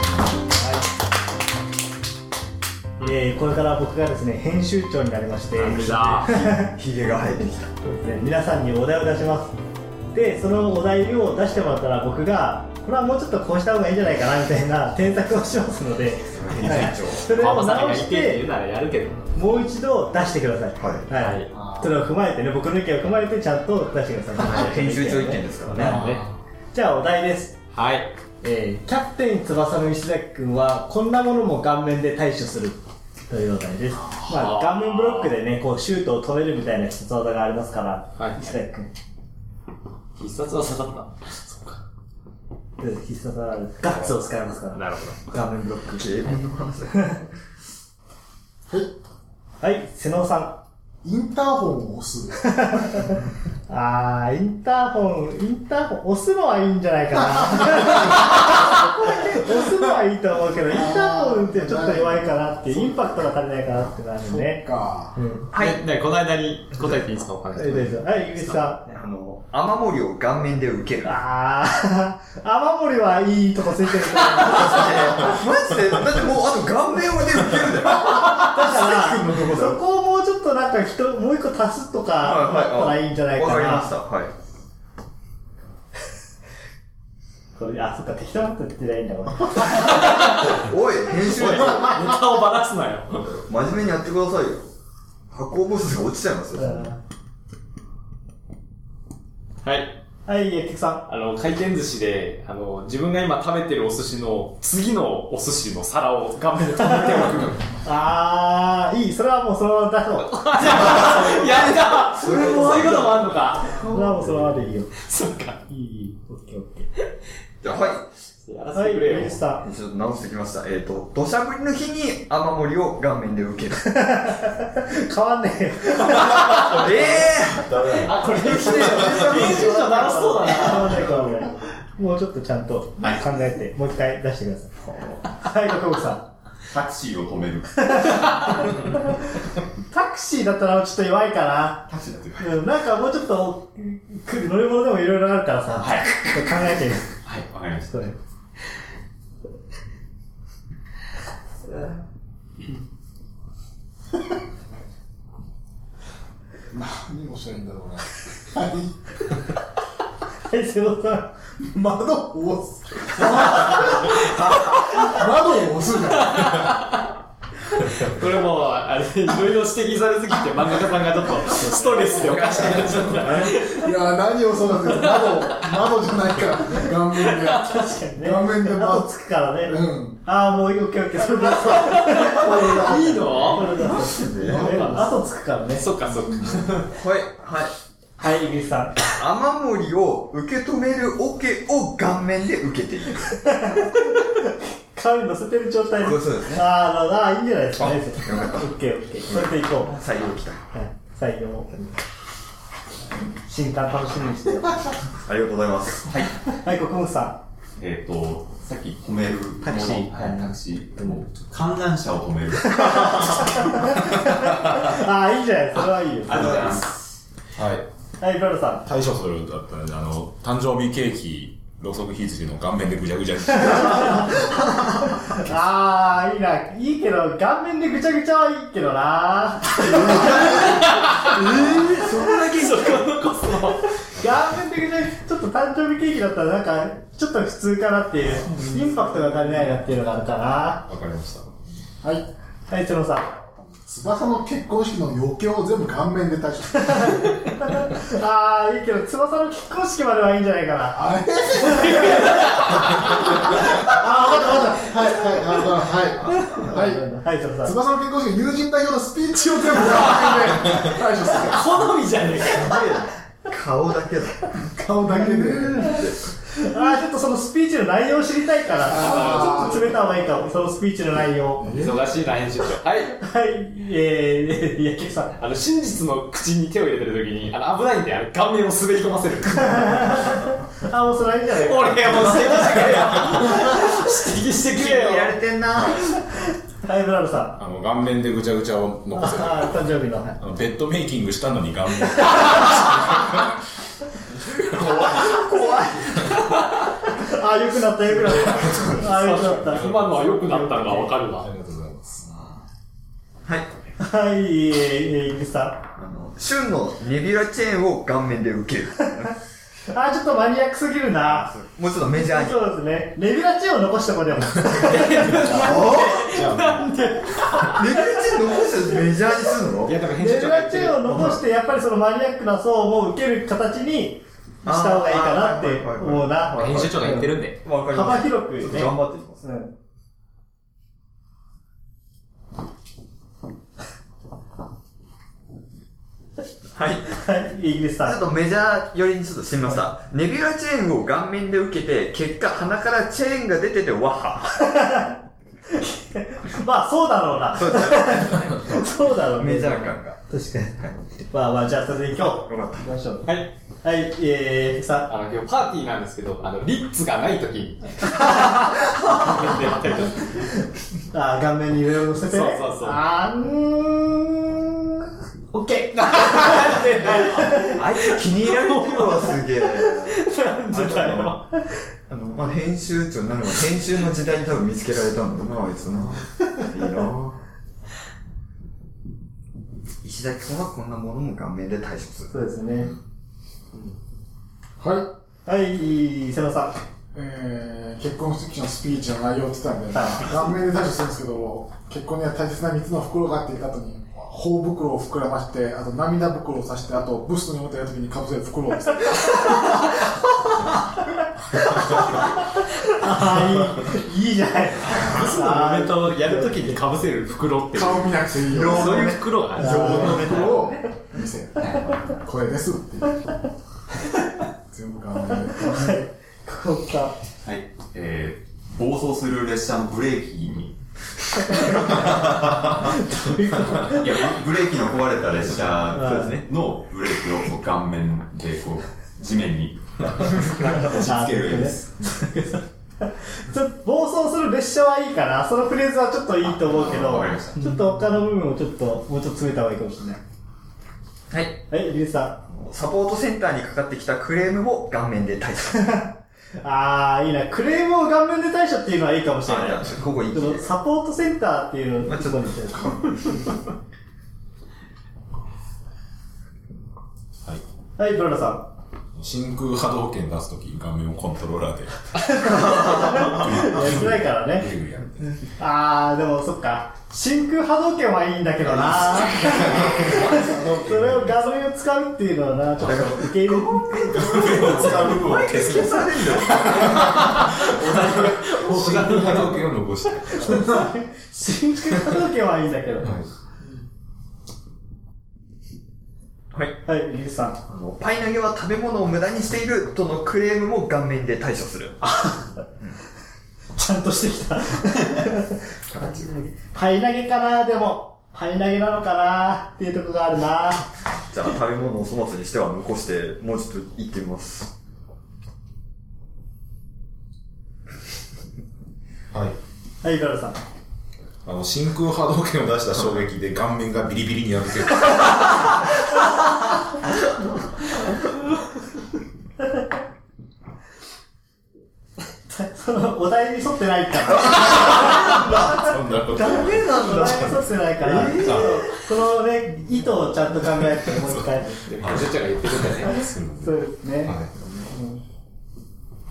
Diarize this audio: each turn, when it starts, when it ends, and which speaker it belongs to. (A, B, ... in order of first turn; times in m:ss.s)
0:00.5-0:00.9 A
0:03.0-0:06.7 A
0:05.6-0:06.4 B
0:06.2-0:07.7 C
0:07.8-0:09.6 A
0:10.1-0:18.4 A
0:16.4-0:17.3 C
0:16.6-0:19.3 B
0:19.4-0:26.0 A
0:20.8-0:21.0 C
0:21.2-0:21.5 B
0:21.5-0:21.9 D
0:24.4-0:26.0 C
0:25.7-0:26.3 B
0:25.8-0:26.2 E
0:26.7-0:27.6 A
0:27.7-0:28.1 B
0:28.4-0:38.9 A
0:34.2-0:35.4 B
0:38.2-0:38.6 B
0:40.2-0:41.8 B
0:42.8-0:46.1 A
0:44.7-0:45.2 B
0:45.9-0:47.2 C
0:49.6-0:50.6 A
0:51.0-0:53.1 D
0:52.4-1:05.5 A
1:00.7-1:03.1 D
1:04.2-1:05.2 D
1:05.5-1:05.8 C
1:05.5-1:08.6 B
1:07.6-1:09.0 A
1:09.0-1:11.2 C
1:11.0-1:15.2 A
1:14.3-1:19.8 C
1:18.0-1:23.9 A
1:22.2-1:24.3 C
1:27.6-1:30.2 A
1:29.8-1:30.6 B
1:29.9-1:32.1 C
1:31.1-1:33.3 B
1:33.2-1:34.7 C
1:35.3-1:36.9 C
1:36.6-1:37.0 A
1:39.6-1:40.0 B
1:40.3-1:41.1 A
1:41.1-1:47.6 B
1:47.8-1:51.3 A
1:50.3-1:54.1 B
1:50.6-1:53.9 C
1:52.2-1:53.1 A
1:53.6-1:54.9 A
1:54.9-1:55.6 B
1:55.7-1:56.9 A
1:57.6-1:58.0 C
1:57.7-1:59.4 B
1:58.7-1:59.6 A
1:59.6-2:04.0 C
2:03.8-2:07.3 A
2:06.1-2:10.4 C
2:06.5-2:08.1 E
2:07.8-2:11.1 B
2:08.2-2:14.8 A
2:11.1-2:11.4 D
2:14.9-2:15.2 C
2:15.3-2:16.2 A
2:16.7-2:18.8 F
2:17.8-2:19.2 A
2:19.9-2:21.9 A
2:21.9-2:22.5 F
2:22.4-2:27.2 A
2:25.8-2:28.1 F
2:27.9-2:28.2 A
2:31.6-2:32.0 A
2:36.7-2:39.0 D
2:40.5-2:41.3 A
2:41.6-2:46.7 D
2:44.2-2:44.9 B
2:46.2-2:47.1 B
2:47.8-2:53.9 B
2:52.0-2:53.6 C
2:53.3-2:59.1 D
2:54.9-2:55.8 B
2:57.0-2:57.9 B
2:57.6-3:05.9 A
2:59.6-3:00.2 D
3:01.9-3:05.0 D
3:01.9-3:03.8 B
3:03.8-3:05.1 C
3:05.8-3:06.9 B
3:06.2-3:06.8 D
3:06.9-3:07.7 C
3:08.2-3:09.1 A
3:09.2-3:13.4 C
3:13.5-3:20.0 A
3:15.9-3:16.7 C
3:18.2-3:18.7 C
3:19.3-3:20.6 C
3:20.7-3:21.8 A
3:23.4-3:24.9 A
3:25.2-3:26.1 C
3:26.1-3:26.3 F
3:26.5-3:27.4 A
3:27.8-3:34.0 F
3:29.6-3:31.2 A
3:32.7-3:36.8 A
3:36.2-3:37.1 F
3:37.6-3:37.8 E
3:38.2-3:38.8 A
3:38.8-3:44.4 E
3:43.7-3:50.7 A
3:49.8-3:53.1 C
3:50.3-3:51.5 B
3:52.3-3:53.9 B
3:54.2-4:00.9 A
4:00.9-4:01.6 E
4:02.0-4:02.3 D
4:02.7-4:03.3 A
4:03.8-4:07.3 D
4:06.8-4:11.0 A
4:10.9-4:17.0 D
4:12.1-4:12.6 B
4:16.3-4:17.7 A
4:17.6-4:21.9 D
4:19.9-4:20.4 B
4:21.4-4:22.9 B
4:22.4-4:24.5 C
4:24.7-4:26.0 D
4:25.3-4:26.2 C
4:26.5-4:31.7 A
4:28.9-4:29.9 D
4:28.9-4:29.7 B
4:31.6-4:32.1 D
4:31.7-4:33.2 B
4:33.2-4:35.3 A
4:35.4-4:40.4 B
4:39.7-4:43.0 A
4:41.6-4:45.4 B
4:42.3-4:43.4 C
4:44.7-4:46.2 C
4:46.8-4:47.6 A
4:47.6-4:53.6 E
4:49.1-4:50.4 A
4:54.5-4:56.4 C
4:55.4-4:56.3 A
4:57.0-5:01.1 A
4:58.2-4:59.1 E
4:59.0-5:01.5 B
4:59.6-5:00.4 E
5:01.4-5:02.3 E
5:03.4-5:03.7 C
5:04.0-5:05.8 A
5:06.0-5:09.4 C
5:09.9-5:11.5 A
5:11.2-5:12.6 C
5:12.2-5:16.2 A
5:14.6-5:15.4 E
5:14.8-5:18.2 B
5:15.5-5:16.3 C
5:16.2-5:17.0 E
5:17.7-5:19.9 C
5:19.8-5:21.4 B
5:20.2-5:29.7 A
5:24.6-5:29.4 C
5:26.6-5:27.6 B
5:36.8-5:37.2 C
5:37.1-5:38.2 A
5:38.0-5:44.7 C
5:44.6-5:45.2 A
5:45.7-5:55.1 A
5:47.6-5:50.2 C
5:52.3-5:52.9 C
5:53.3-5:53.5 B
5:55.1-6:00.5 B
6:00.3-6:00.6 A
6:01.1-6:07.8 A
6:02.3-6:03.0 B
6:06.0-6:11.4 B
6:07.7-6:11.4 C
6:11.0-6:11.7 A
6:12.1-6:17.4 C
6:20.0-6:22.3 C
6:22.3-6:22.9 A
6:24.8-6:25.1 D
6:25.5-6:26.8 A
6:27.1-6:39.5 D
6:29.9-6:30.3 A
6:39.0-6:46.8 A
6:44.9-6:50.7 B
6:47.7-6:53.3 D
6:48.5-6:50.6 C
6:49.6-6:50.5 A
6:51.6-6:52.2 F
6:54.7-6:56.0 D
6:55.4-6:57.2 A
6:57.4-7:00.8 F
7:02.8-7:04.2 A
7:03.8-7:10.1 F
7:05.9-7:06.4 C
7:05.9-7:06.4 A
7:10.4-7:11.1 C
7:10.8-7:20.2 A
7:10.9-7:11.8 F
7:11.1-7:11.8 E
7:16.4-7:17.8 F
7:21.3-7:21.6 C
7:21.7-7:22.4 A
7:22.5-7:26.0 C
7:26.6-7:33.1 A
7:29.4-7:30.7 C
7:32.1-7:33.5 C
7:38.0-7:38.7 A
7:39.2-7:45.4 E
7:42.2-7:44.7 A
7:45.6-7:54.7 A
7:48.7-7:51.5 E
7:52.8-7:57.3 C
7:54.1-8:00.9 E
7:56.7-7:59.6 B
8:00.2-8:03.2 A
8:06.5-8:06.8 C
8:06.8-8:07.6 A
8:07.7-8:12.0 C
8:12.0-8:12.6 A
8:13.8-8:20.9 A
8:15.9-8:16.3 C
8:21.3-8:24.7 C
8:30.0-8:30.6 A
8:31.4-8:35.5 E
8:42.5-8:45.8 A
8:44.9-8:47.6 E
8:45.0-8:45.8 C
8:46.3-8:48.8 C
8:46.4-8:51.8 A
8:48.1-8:48.9 E
8:51.0-8:51.4 E
8:51.9-8:53.2 B
8:52.0-8:54.5 E
8:53.0-8:55.2 A